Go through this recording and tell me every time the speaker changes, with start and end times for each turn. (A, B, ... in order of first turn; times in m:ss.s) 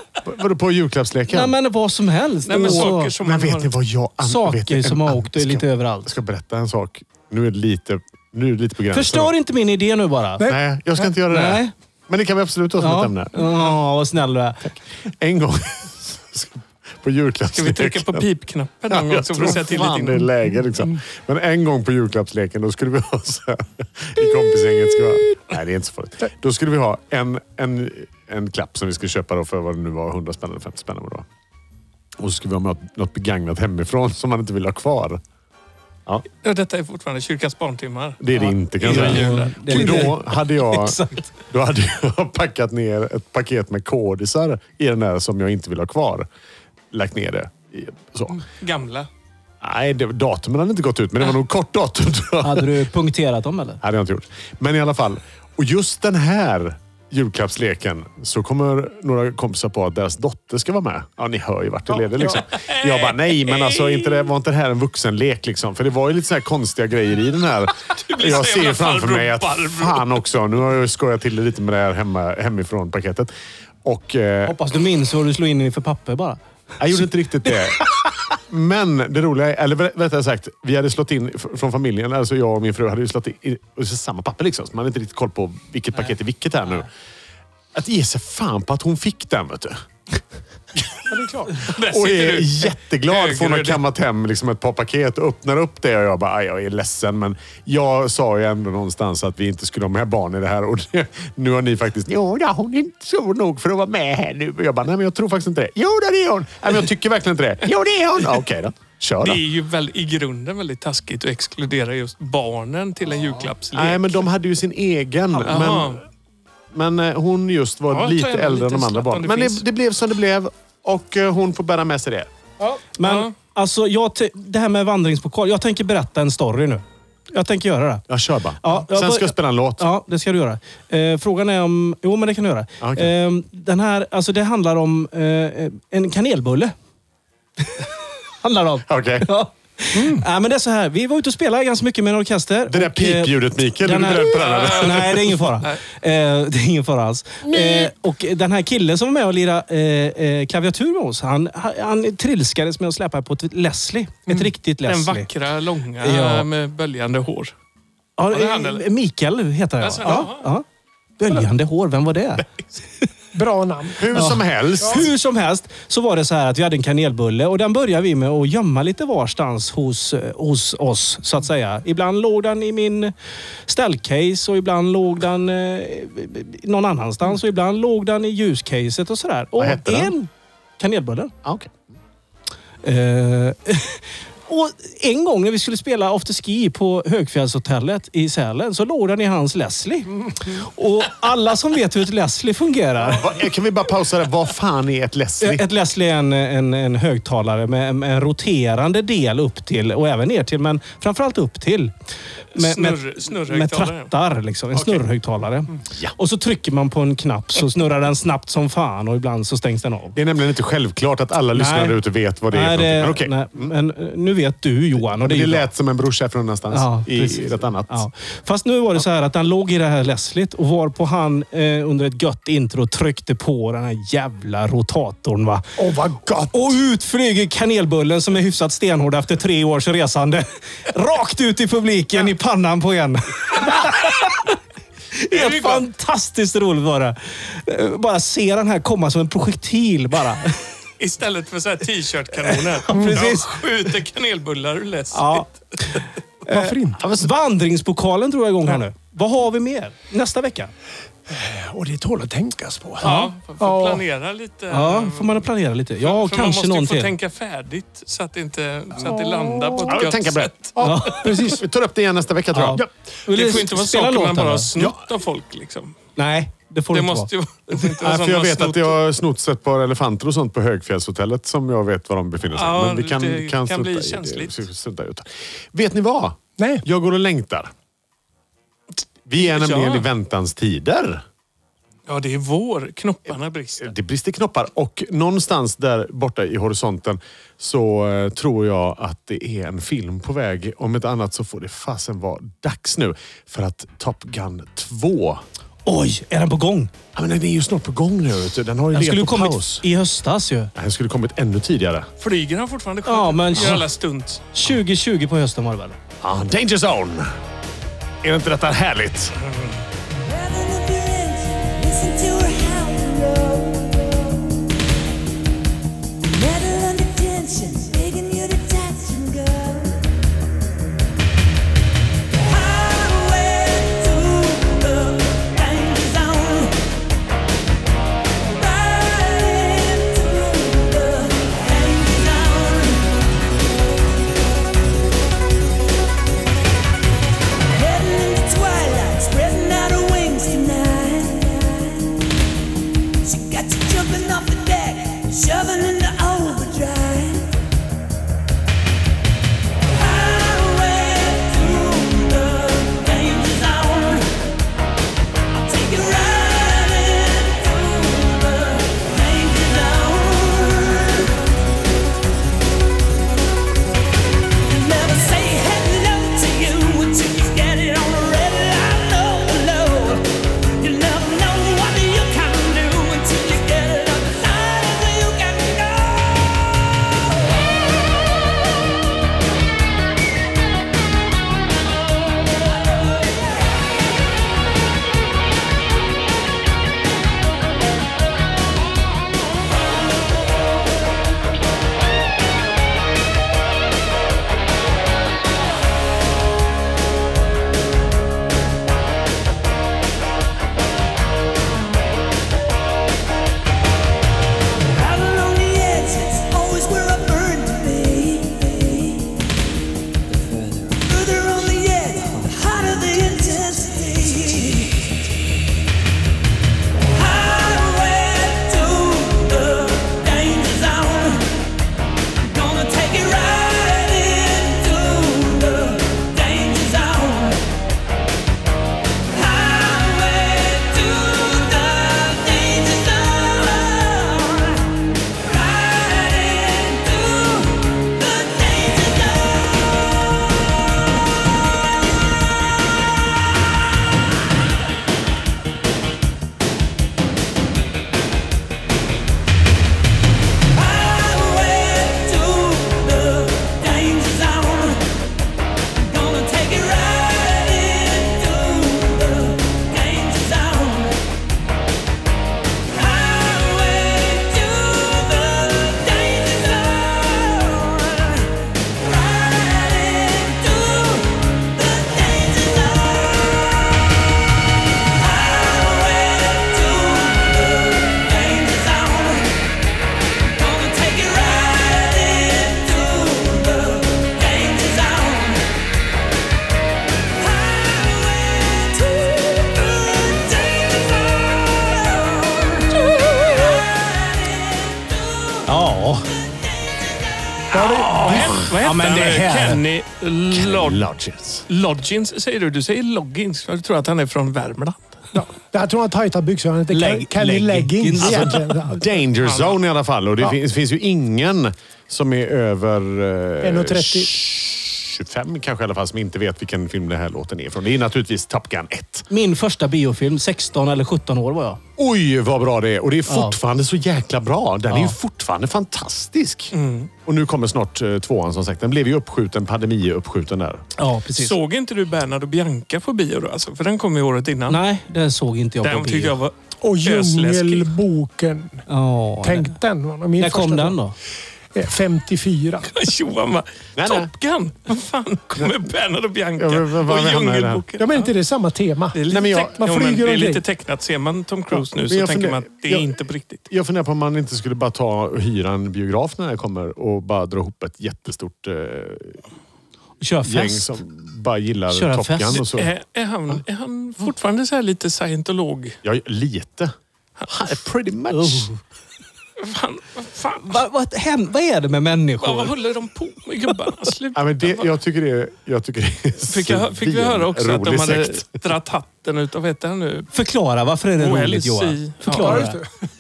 0:00.2-0:01.5 A
0:01.3-0:03.1 B
0:02.4-0:03.7 C
0:02.6-0:09.3 A
0:04.2-0:06.1 B
0:08.9-0:10.5 B
0:10.4-0:13.7 A
0:11.3-0:11.7 B
0:12.8-0:14.7 B
0:14.6-0:18.3 A
0:17.5-0:20.3 C
0:18.9-0:31.2 A
0:32.2-0:35.2 A
0:36.4-0:39.8 C
0:38.2-0:46.3 A
0:38.8-0:41.2 B
0:46.9-0:48.4 A
0:48.6-0:49.1 C
0:49.6-0:52.8 A
0:52.4-0:53.8 B
0:53.8-1:13.3 A
1:01.9-1:02.4 D
1:02.3-1:04.3 C
1:08.0-1:10.2 C
1:13.8-1:14.6 A
1:14.4-1:16.4 B
1:16.8-1:26.9 A
1:16.9-1:17.5 B
1:27.7-1:29.8 A
1:31.1-1:31.7 D
1:31.7-1:33.8 C
1:31.7-1:49.4 A
1:49.2-1:54.2 C
1:53.7-1:56.0 A
1:55.4-1:56.0 C
1:56.7-2:02.3 A
1:57.9-1:59.6 C
2:03.0-2:08.0 B
2:03.0-2:03.3 C
2:08.1-2:09.9 A
2:08.6-2:16.7 B
2:12.8-2:13.1 A
2:18.4-2:35.3 B
2:18.9-2:19.2 A
2:19.9-2:20.2 D
2:22.7-2:25.3 A
2:24.3-2:25.8 C
2:27.4-2:27.9 D
2:34.8-2:37.5 C
2:36.0-2:36.4 B
2:38.2-2:40.6 B
2:38.3-2:38.8 C
2:39.8-2:40.5 C
2:41.2-2:42.4 B
2:43.3-2:44.1 D
2:44.0-2:45.1 A
2:44.1-2:53.1 B
2:53.7-3:01.3 B
2:59.6-3:00.1 A
3:01.4-3:01.8 A
3:02.8-3:13.3 B
3:13.0-3:15.7 A
3:15.4-3:21.9 B
3:22.5-3:30.2 B
3:22.6-3:24.1 C
3:24.7-3:25.0 A
3:25.8-3:26.1 A
3:30.1-3:33.7 A
3:31.5-3:35.7 B
3:35.0-3:38.1 A
3:36.7-3:45.6 B
3:45.8-3:46.8 D
3:46.5-3:54.5 B
3:55.1-4:00.6 B
3:55.3-3:55.8 C
4:01.0-4:06.0 C
4:02.4-4:03.7 B
4:02.9-4:03.2 D
4:05.1-4:10.7 B
4:06.5-4:07.0 D
4:07.0-4:07.3 A
4:11.3-4:14.0 D
4:13.0-4:15.4 C
4:13.0-4:13.3 B
4:14.7-4:17.1 B
4:16.0-4:20.7 C
4:19.0-4:19.9 D
4:19.9-4:20.7 A
4:20.8-4:21.6 D
4:20.8-4:21.3 B
4:21.4-4:22.8 A
4:22.5-4:24.7 B
4:23.3-4:26.0 C
4:26.2-4:27.3 B
4:26.9-4:29.0 C
4:27.9-4:37.7 A
4:32.5-4:34.6 C
4:36.6-4:36.8 D
4:39.3-4:41.2 A
4:39.4-4:40.1 C
4:42.1-4:43.9 C
4:43.8-4:55.4 A
4:55.8-4:56.9 B
4:57.1-4:59.8 A
4:58.9-5:00.7 B
5:00.7-5:02.1 A
5:02.2-5:04.5 C
5:03.0-5:03.8 B
5:03.6-5:03.8 A
5:04.5-5:06.0 B
5:06.2-5:07.3 A
5:08.2-5:09.4 A
5:09.4-5:09.8 C
5:10.2-5:14.7 E
5:16.2-5:20.0 E
5:22.4-5:26.8 E
5:28.5-5:33.2 E
5:37.7-5:42.2 E
5:43.2-5:47.5 E
5:49.9-5:54.3 E
5:55.5-6:01.4 E
6:04.6-6:16.8 E
6:44.8-6:49.4 E
6:50.4-6:55.2 E
6:57.1-7:01.6 E
7:02.4-7:07.6 E
7:09.3-7:20.4 E
7:30.7-7:35.2 E
7:36.0-7:41.2 E
7:42.9-7:54.0 E
7:55.1-7:59.6 E
8:00.5-8:05.7 E
8:07.4-8:18.0 E
8:15.6-8:16.3 B
8:17.7-8:18.2 D
8:17.8-8:19.8 B
8:18.1-8:21.1 C
8:18.3-8:18.8 A
8:20.5-8:21.7 A
8:21.7-8:25.0 C
8:25.3-8:29.2 D
8:26.9-8:28.6 B
8:28.2-8:39.3 A
8:29.4-8:29.8 C
8:33.6-8:34.3 D
8:39.3-8:41.8 B
8:42.0-8:46.7 A
8:43.3-8:43.6 B
8:44.9-8:45.2 B
8:46.7-8:47.1 C
8:47.2-8:50.8 A
8:51.0-8:51.6 B
8:51.4-8:54.8 C
8:54.7-8:56.3 B
8:55.8-8:57.9 C
8:56.8-8:58.8 D
8:58.9-8:59.7 B
8:59.4-9:01.0 D
9:00.4-9:01.2 B
9:01.7-9:02.9 D
9:02.8-9:08.3 C
9:04.0-9:04.3 A
9:05.5-9:05.8 A
9:06.6-9:07.8 A
9:08.0-9:09.2 D
9:09.1-9:13.6 C
9:09.3-9:09.8 A
9:09.7-9:10.6 D
9:12.0-9:13.2 A
9:13.7-9:19.4 A
9:20.2-9:20.9 B
9:20.4-9:22.9 A
9:21.9-9:22.6 B
9:22.5-9:26.0 C
9:26.0-9:26.9 A
9:27.5-9:28.7 A
9:28.3-9:28.8 B
9:29.6-9:30.8 C
9:30.6-9:32.7 B
9:32.4-9:34.9 C
9:34.3-9:38.5 A
9:36.5-9:40.3 C
9:40.3-9:42.8 B
9:41.2-9:42.7 C
9:42.4-9:42.8 D